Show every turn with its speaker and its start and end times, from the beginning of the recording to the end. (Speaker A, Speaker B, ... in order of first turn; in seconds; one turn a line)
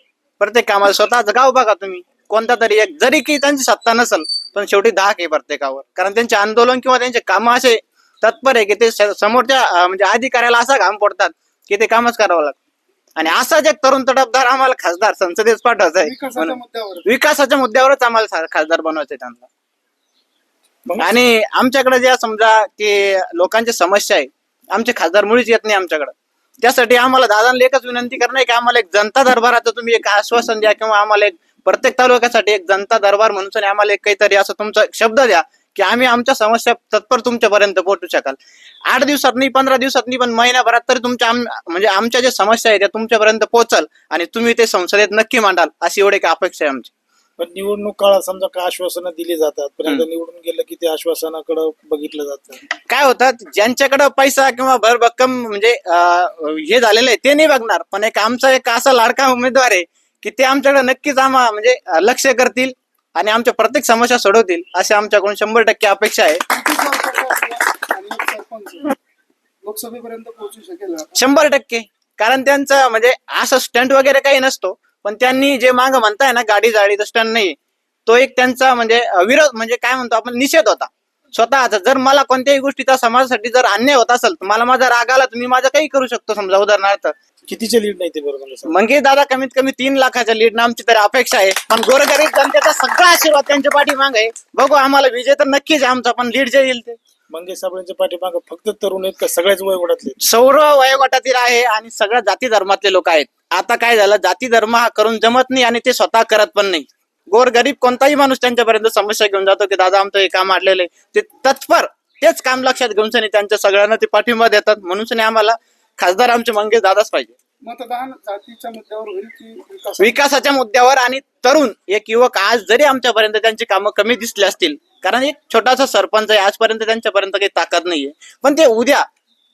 Speaker A: 0.4-12.6
Speaker A: 13.2-19.5
Speaker B: 16.0-17.1
Speaker C: 20.9-21.1
Speaker A: 21.0-46.9
Speaker C: 47.4-52.6
Speaker A: 52.9-66.4
Speaker B: 66.5-68.9
Speaker B: 69.6-71.1
Speaker A: 71.2-87.1
Speaker C: 87.5-88.7
Speaker A: 88.7-97.0
Speaker C: 97.3-100.2
Speaker A: 100.2-117.3
Speaker B: 117.6-120.2
Speaker A: 120.0-129.0